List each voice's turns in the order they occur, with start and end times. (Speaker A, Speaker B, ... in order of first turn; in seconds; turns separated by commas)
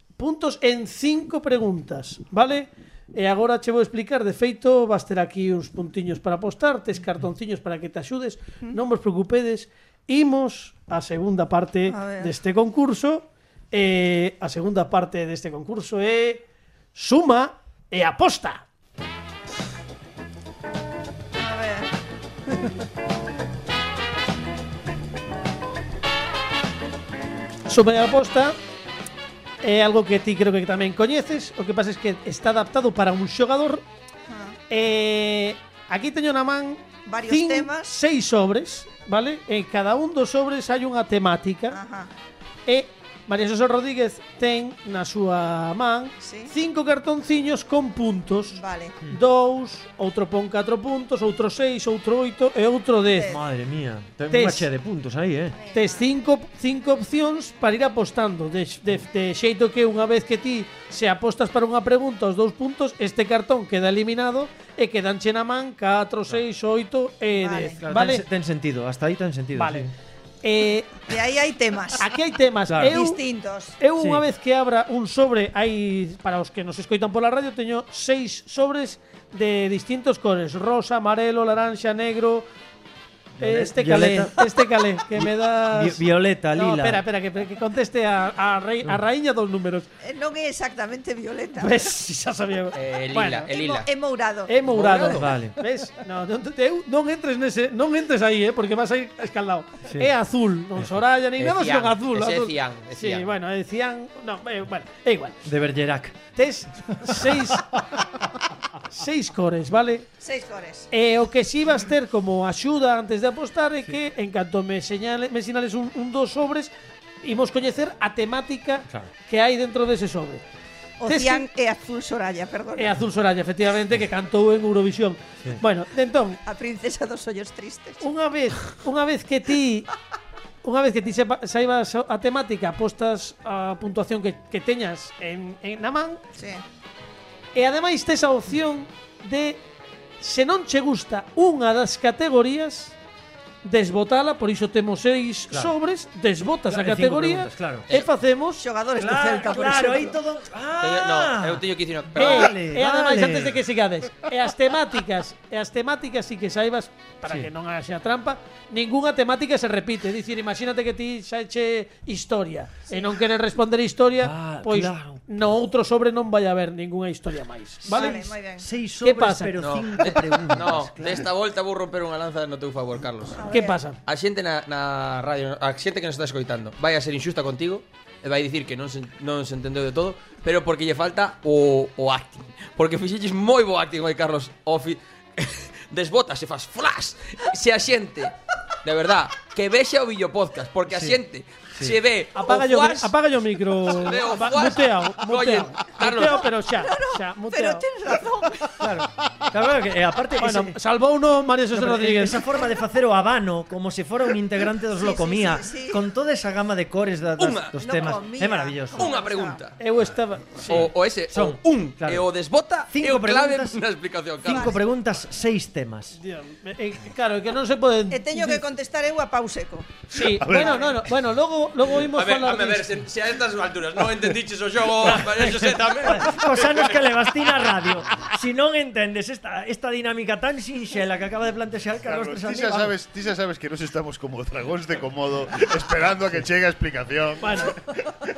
Speaker A: 0.2-16.4, Speaker B: 11.8-12.3, Speaker A: 16.9-18.6, Speaker B: 21.3-21.9, Speaker A: 27.7-28.6, Speaker A: 29.6-33.8, Speaker B: 34.3-34.6, Speaker A: 34.7-41.8, Speaker B: 37.0-37.9, Speaker B: 41.7-42.1, Speaker A: 42.6-53.3, Speaker B: 46.2-46.5, Speaker B: 48.5-49.0, Speaker B: 53.1-53.4, Speaker C: 53.2-55.6, Speaker A: 54.3-54.7, Speaker B: 55.5-56.1, Speaker A: 55.7-68.2, Speaker B: 67.3-67.8, Speaker C: 67.8-69.9, Speaker A: 69.5-69.9, Speaker A: 70.4-71.0, Speaker B: 71.0-72.1, Speaker A: 72.0-73.2, Speaker C: 72.7-73.0, Speaker B: 72.9-73.8, Speaker A: 73.8-82.5, Speaker C: 74.0-74.2, Speaker C: 83.4-84.5, Speaker A: 83.4-89.9, Speaker C: 85.1-87.0, Speaker B: 90.0-91.9, Speaker A: 91.6-93.5, Speaker D: 92.7-93.9, Speaker B: 93.5-95.0, Speaker A: 94.5-105.4, Speaker D: 94.7-95.3, Speaker C: 95.1-95.6, Speaker D: 101.4-103.3, Speaker C: 105.4-106.2, Speaker A: 106.3-108.0, Speaker A: 108.9-110.1, Speaker B: 110.2-110.9, Speaker A: 110.9-116.7, Speaker A: 117.2-120.4, Speaker B: 121.0-123.0, Speaker A: 121.0-121.5, Speaker A: 122.8-126.4, Speaker B: 126.4-128.0, Speaker A: 128.0-129.9, Speaker A: 130.6-136.2, Speaker B: 136.3-136.6, Speaker A: 137.5-139.6, Speaker A: 140.2-142.9, Speaker A: 143.6-148.6, Speaker C: 146.7-147.9, Speaker B: 148.6-150.2, Speaker C: 149.0-153.6, Speaker D: 150.8-152.5, Speaker A: 152.2-168.2, Speaker B: 162.9-163.2, Speaker C: 164.2-165.2, Speaker C: 167.8-171.3, Speaker B: 167.8-168.7, Speaker A: 169.0-169.6, Speaker D: 169.6-173.4, Speaker B: 173.3-173.8, Speaker A: 173.5-174.0, Speaker D: 174.0-193.1, Speaker C: 190.9-191.2, Speaker A: 192.3-197.8, Speaker D: 193.8-196.5, Speaker B: 196.2-198.8, Speaker C: 198.8-200.8, Speaker A: 200.4-202.4, Speaker C: 201.7-209.1, Speaker B: 204.9-206.0, Speaker D: 207.4-207.8, Speaker B: 207.8-209.6, Speaker D: 208.9-209.8, Speaker A: 209.8-210.9, Speaker D: 210.6-214.8, Speaker C: 210.7-212.2, Speaker C: 212.9-213.8, Speaker C: 214.4-216.2, Speaker B: 214.5-214.8, Speaker A: 216.2-218.6, Speaker B: 218.1-220.0, Speaker A: 220.1-222.9, Speaker E: 220.1-221.0, Speaker D: 222.1-227.0, Speaker C: 225.0-232.9, Speaker E: 232.0-238.1, Speaker A: 237.4-237.8